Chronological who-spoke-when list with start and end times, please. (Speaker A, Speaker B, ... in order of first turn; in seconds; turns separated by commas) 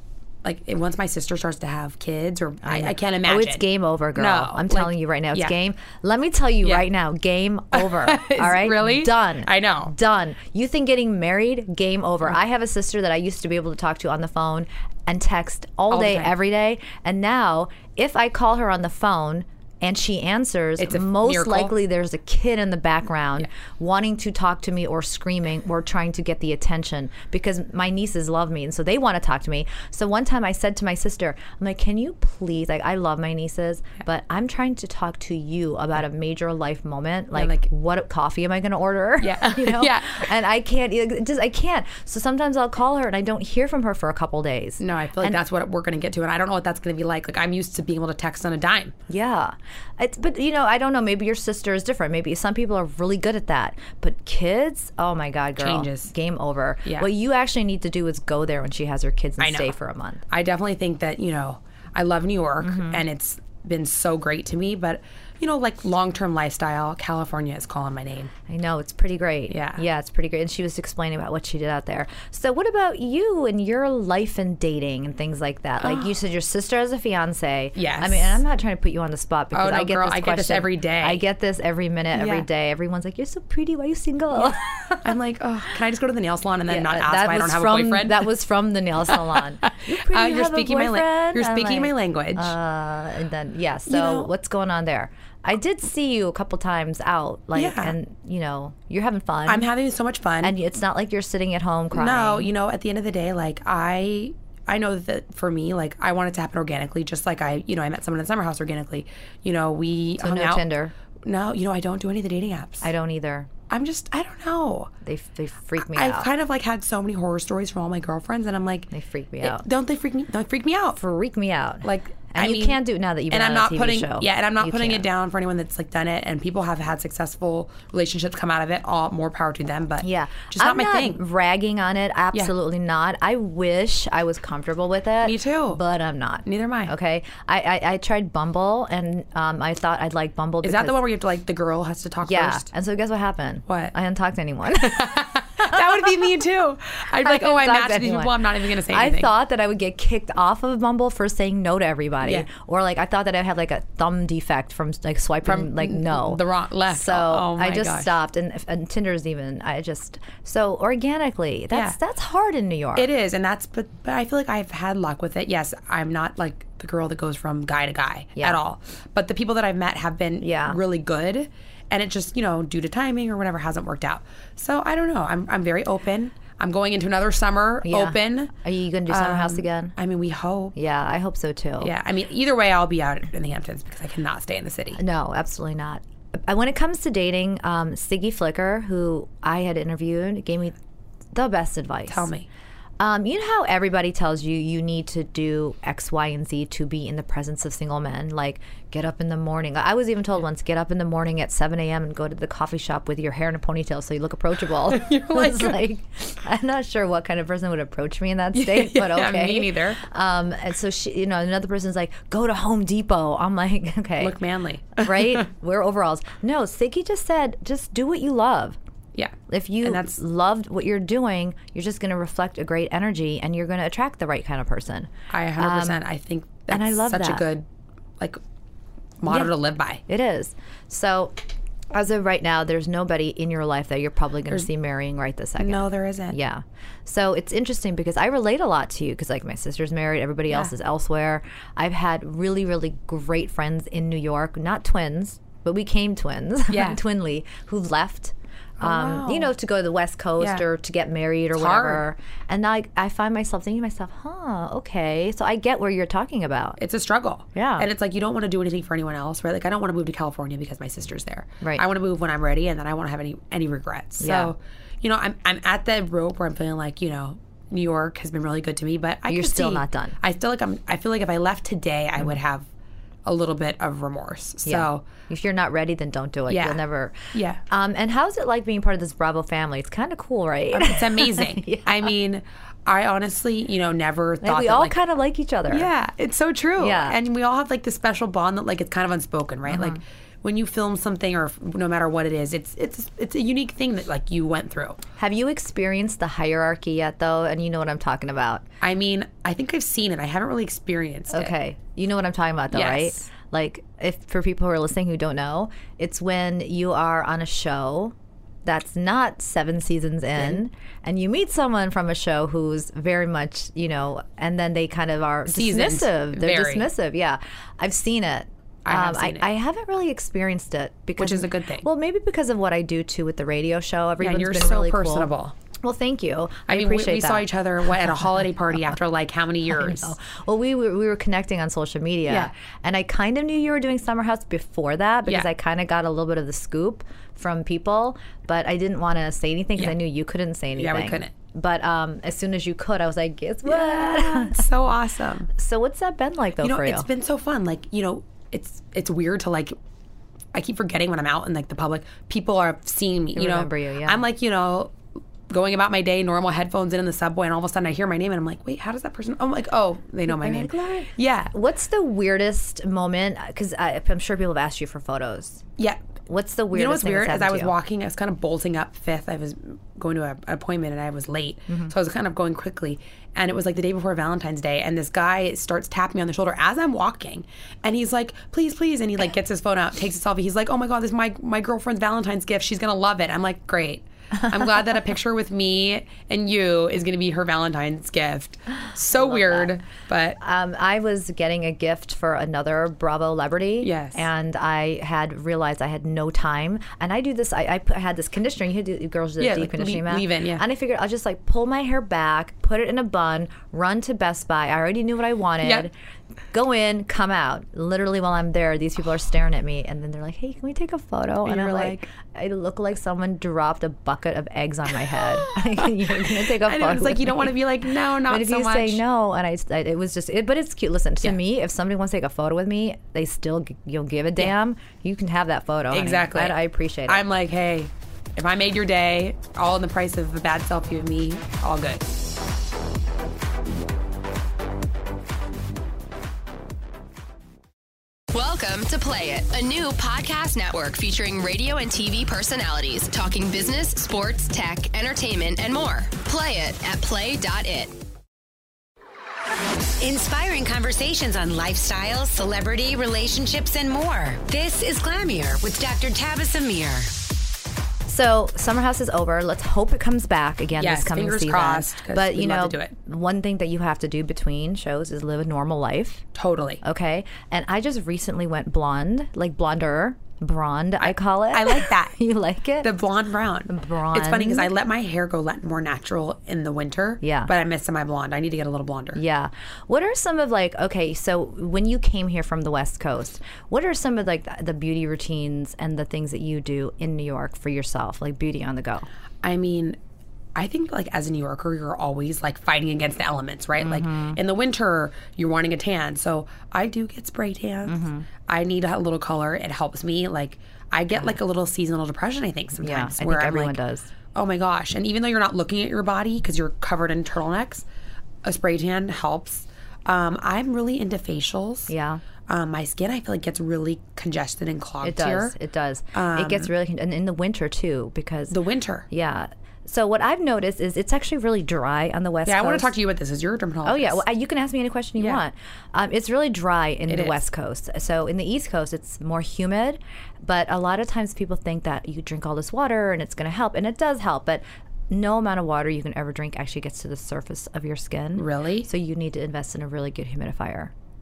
Speaker A: 0.4-5.6, Speaker B: 2.6-45.4, Speaker A: 7.7-9.9, Speaker A: 15.9-16.3, Speaker A: 20.8-21.8, Speaker A: 37.3-37.7, Speaker A: 39.2-40.3, Speaker A: 44.8-49.0, Speaker B: 49.1-60.2, Speaker A: 55.6-56.1, Speaker A: 56.9-57.1, Speaker A: 59.4-59.8, Speaker A: 60.3-68.3, Speaker B: 62.6-63.0, Speaker B: 68.5-85.0, Speaker A: 69.5-69.8, Speaker A: 75.8-76.1, Speaker A: 77.8-78.4, Speaker A: 79.5-81.2, Speaker A: 82.2-82.5, Speaker A: 85.0-88.3, Speaker B: 86.7-99.7, Speaker A: 89.1-92.5, Speaker A: 93.9-94.3, Speaker A: 97.5-98.0, Speaker A: 99.5-100.5, Speaker B: 100.4-102.5, Speaker A: 101.9-110.7, Speaker B: 110.2-110.9, Speaker A: 111.2-112.9, Speaker B: 112.8-113.5, Speaker A: 113.7-114.9, Speaker B: 115.0-116.3, Speaker A: 115.8-121.0, Speaker B: 118.9-119.6, Speaker B: 121.0-125.0, Speaker A: 121.8-131.2, Speaker B: 130.0-141.0, Speaker A: 135.2-135.8, Speaker A: 136.4-136.9, Speaker A: 140.6-142.7, Speaker B: 142.2-146.0, Speaker A: 143.7-143.9, Speaker A: 144.8-149.3, Speaker B: 147.2-163.1, Speaker A: 152.2-152.5, Speaker A: 155.4-158.1, Speaker A: 161.7-162.0, Speaker A: 162.9-178.5, Speaker B: 170.4-170.8, Speaker B: 177.8-179.9, Speaker A: 179.1-180.8, Speaker B: 180.8-181.9, Speaker A: 181.8-185.0, Speaker B: 185.0-190.8, Speaker B: 191.3-192.3, Speaker A: 192.1-192.5, Speaker B: 193.0-214.4, Speaker A: 204.9-205.8, Speaker A: 208.5-210.0, Speaker A: 214.2-215.5, Speaker B: 215.0-218.8, Speaker A: 219.2-220.2, Speaker B: 219.5-226.0, Speaker A: 225.3-227.7, Speaker B: 226.7-227.4, Speaker A: 229.2-230.0, Speaker B: 230.1-231.4, Speaker B: 231.9-256.8, Speaker A: 235.6-236.4, Speaker A: 246.7-247.0, Speaker A: 248.8-249.5, Speaker A: 250.4-250.7, Speaker A: 251.6-252.1, Speaker A: 256.8-272.7, Speaker B: 257.6-257.9, Speaker B: 264.2-264.5, Speaker B: 269.3-270.2, Speaker A: 273.2-275.1, Speaker B: 274.6-277.2, Speaker A: 276.5-276.8, Speaker A: 277.3-277.6, Speaker B: 277.7-282.1, Speaker A: 280.7-285.0, Speaker B: 284.4-285.9, Speaker A: 285.7-295.0, Speaker B: 286.8-287.2, Speaker B: 289.7-290.0, Speaker B: 295.2-298.6, Speaker A: 298.8-301.5, Speaker B: 301.3-308.1, Speaker A: 302.7-303.3, Speaker B: 308.6-325.3, Speaker A: 310.4-310.6, Speaker A: 315.5-316.9, Speaker A: 318.9-319.5, Speaker A: 321.2-321.9, Speaker A: 324.2-325.6, Speaker B: 325.8-327.5, Speaker A: 326.7-330.1, Speaker B: 329.7-344.7, Speaker A: 340.8-341.3, Speaker A: 343.6-345.5, Speaker B: 345.6-347.1, Speaker A: 346.6-349.8, Speaker A: 350.5-355.0, Speaker B: 353.4-354.2, Speaker A: 355.5-361.5, Speaker B: 360.3-365.6, Speaker B: 366.3-367.7, Speaker A: 366.7-390.4, Speaker B: 389.1-389.8, Speaker B: 390.4-405.9, Speaker A: 393.8-394.3, Speaker A: 399.4-400.6, Speaker A: 405.6-405.9, Speaker B: 406.5-417.5, Speaker A: 411.4-412.1, Speaker A: 415.2-419.0, Speaker B: 418.3-427.2, Speaker A: 425.9-432.2, Speaker C: 438.3-447.9, Speaker D: 450.0-457.2, Speaker B: 458.1-466.2, Speaker A: 460.8-462.9, Speaker A: 466.4-466.8, Speaker B: 466.8-472.9, Speaker A: 471.0-472.2, Speaker A: 472.8-479.2, Speaker B: 473.7-474.7, Speaker B: 477.2-477.5, Speaker B: 479.1-489.1, Speaker A: 489.4-490.0, Speaker A: 490.6-503.8, Speaker B: 493.8-494.4, Speaker B: 497.9-498.3, Speaker B: 502.8-504.1, Speaker A: 504.4-507.9, Speaker A: 508.4-511.9, Speaker B: 511.9-512.2, Speaker A: 512.5-515.5, Speaker B: 515.0-518.6, Speaker A: 516.1-516.7, Speaker A: 518.5-519.1, Speaker B: 519.1-522.9, Speaker A: 522.5-524.2, Speaker B: 523.9-540.9, Speaker A: 525.2-525.4, Speaker A: 527.1-527.4, Speaker A: 538.4-538.9